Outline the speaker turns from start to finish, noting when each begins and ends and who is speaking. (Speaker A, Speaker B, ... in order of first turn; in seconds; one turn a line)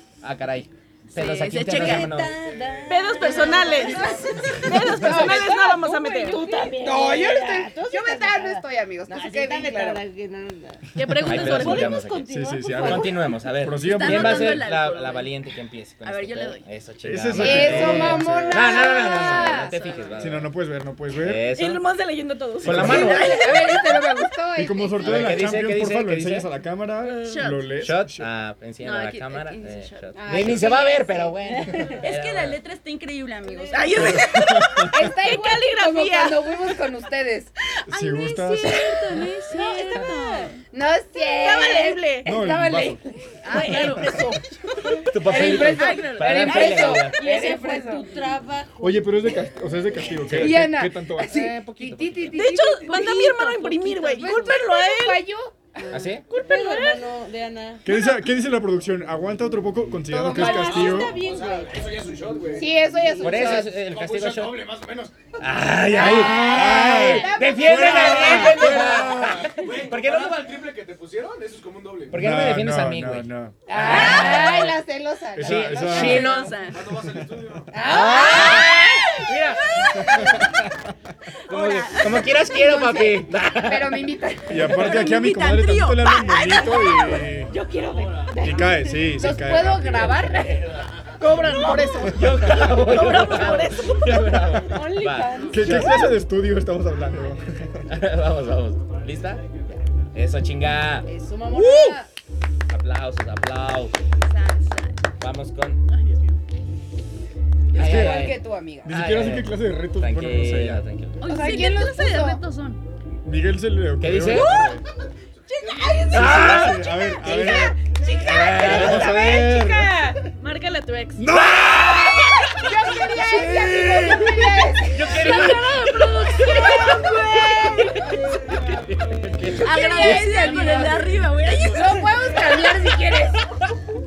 Speaker A: 0.2-2.4
Speaker B: 1.1-2.2
Speaker C: 1.6-13.2
Speaker D: 2.9-6.4
Speaker B: 3.2-3.9
Speaker E: 3.2-5.7
Speaker E: 6.3-10.0
Speaker B: 10.9-11.9
Speaker A: 11.2-12.3
Speaker F: 12.3-14.6
Speaker A: 12.8-20.5
Speaker B: 13.8-15.5
Speaker B: 16.0-16.6
Speaker F: 17.0-18.6
Speaker E: 17.3-20.0
Speaker B: 18.9-20.3
Speaker F: 20.2-21.4
Speaker A: 21.1-21.8
Speaker D: 21.5-23.9
Speaker F: 22.6-23.2
Speaker A: 22.6-23.5
Speaker E: 22.8-25.5
Speaker F: 24.5-28.3
Speaker A: 25.0-26.5
Speaker B: 27.1-27.6
Speaker A: 27.8-32.6
Speaker B: 28.8-34.4
Speaker E: 30.2-31.4
Speaker C: 31.5-32.0
Speaker D: 33.6-36.7
Speaker F: 33.9-35.1
Speaker E: 34.9-37.5
Speaker F: 37.9-38.9
Speaker B: 37.9-40.6
Speaker C: 38.6-40.4
Speaker D: 39.7-40.5
Speaker E: 40.7-48.1
Speaker D: 41.2-42.3
Speaker F: 42.2-43.0
Speaker B: 43.5-44.2
Speaker A: 43.5-44.1
Speaker C: 43.7-44.2
Speaker A: 45.0-47.2
Speaker B: 45.3-46.1
Speaker C: 45.3-49.1
Speaker F: 48.8-51.4
Speaker A: 50.2-50.7
Speaker E: 50.3-53.2
Speaker A: 51.2-52.4
Speaker D: 52.3-55.3
Speaker C: 52.8-54.6
Speaker B: 52.9-54.4
Speaker E: 54.2-56.2
Speaker A: 55.9-56.2
Speaker D: 56.3-57.0
Speaker C: 56.3-57.8
Speaker F: 57.8-61.2
Speaker E: 60.1-61.2
Speaker C: 60.3-61.8
Speaker G: 61.1-65.4
Speaker E: 62.5-63.7
Speaker A: 63.2-64.7
Speaker A: 65.4-70.6
Speaker F: 65.9-69.5
Speaker E: 66.0-68.5
Speaker G: 67.9-72.2
Speaker A: 72.1-74.8
Speaker F: 72.1-73.6
Speaker E: 73.7-76.5
Speaker F: 75.3-76.3
Speaker A: 75.4-76.6
Speaker B: 76.1-76.8
Speaker G: 76.6-77.8
Speaker F: 77.0-77.4
Speaker E: 77.7-80.5
Speaker A: 77.8-79.7
Speaker B: 78.4-78.8
Speaker B: 79.8-80.3
Speaker F: 80.0-80.6
Speaker B: 81.5-82.4
Speaker A: 81.5-84.1
Speaker E: 81.8-85.0
Speaker F: 84.5-87.5
Speaker B: 84.7-87.3
Speaker C: 86.5-87.0
Speaker C: 87.5-89.0
Speaker E: 87.6-90.7
Speaker F: 88.4-90.2
Speaker A: 90.2-90.9
Speaker D: 91.2-94.6
Speaker E: 91.7-92.0
Speaker A: 92.0-96.0
Speaker F: 92.2-92.5
Speaker C: 94.6-95.9
Speaker F: 95.5-97.9
Speaker A: 97.9-99.4
Speaker A: 100.1-101.1
Speaker C: 101.1-102.1
Speaker E: 101.1-102.0
Speaker D: 101.5-102.0
Speaker A: 102.7-103.9
Speaker B: 104.3-104.9
Speaker A: 105.2-105.8
Speaker E: 107.7-109.0
Speaker A: 107.7-111.2
Speaker F: 107.7-108.3
Speaker F: 108.8-110.8
Speaker B: 111.2-112.8
Speaker E: 111.2-112.4
Speaker F: 113.2-114.8
Speaker A: 114.0-114.5
Speaker E: 115.6-120.2
Speaker F: 116.1-117.8
Speaker A: 116.1-119.2
Speaker F: 118.5-120.1
Speaker D: 120.4-121.3
Speaker F: 121.2-124.6
Speaker E: 121.8-125.6
Speaker A: 124.9-127.0
Speaker B: 125.0-127.7
Speaker C: 125.3-125.9
Speaker E: 126.5-128.2
Speaker D: 126.9-127.6
Speaker A: 127.9-132.7
Speaker E: 129.4-133.5
Speaker B: 129.6-132.2